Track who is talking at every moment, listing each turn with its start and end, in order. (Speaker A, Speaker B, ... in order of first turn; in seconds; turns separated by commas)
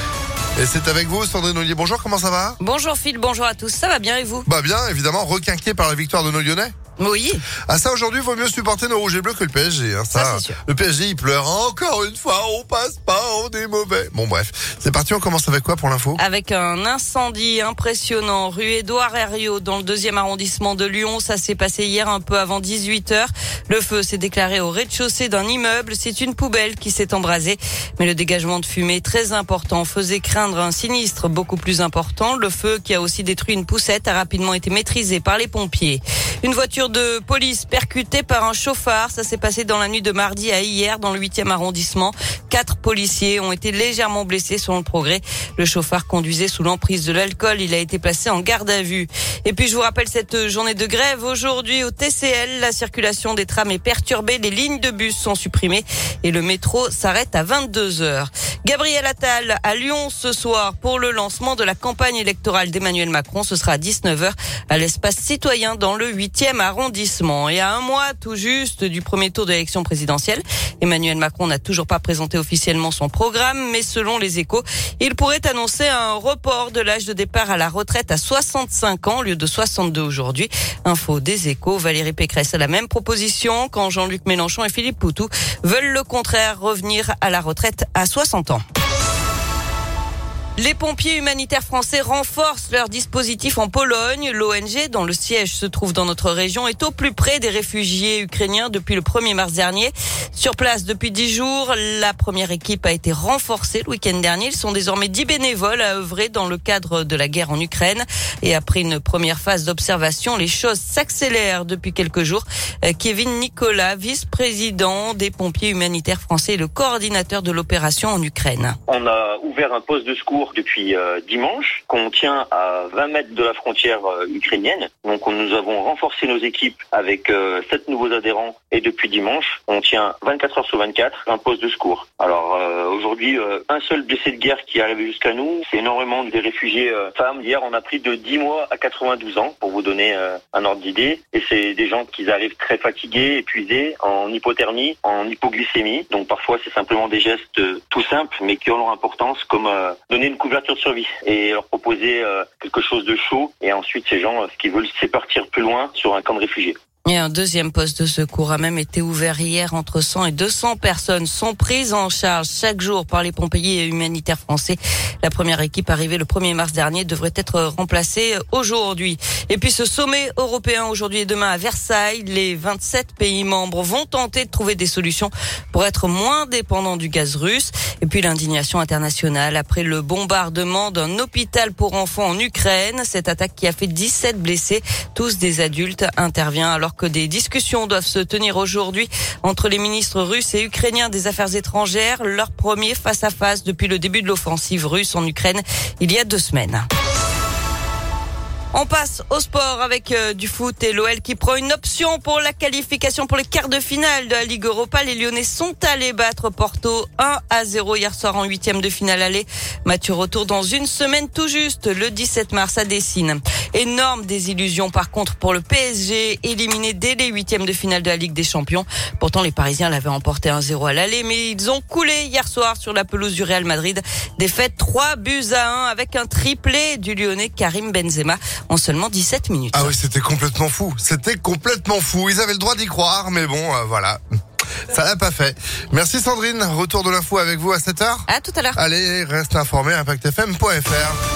Speaker A: 0.6-2.6, Speaker B: 2.6-4.5, Speaker A: 4.4-6.7, Speaker B: 7.0-7.4, Speaker A: 7.7-16.2, Speaker B: 10.1-10.6, Speaker B: 16.2-88.6, Speaker B: 90.6-118.8, Speaker C: 118.9-156.8, Speaker B: 157.0-196.9, Speaker B: 198.7-229.9, Speaker A: 229.7-234.2, Speaker A: 234.9-241.2, Speaker B: 238.3-238.8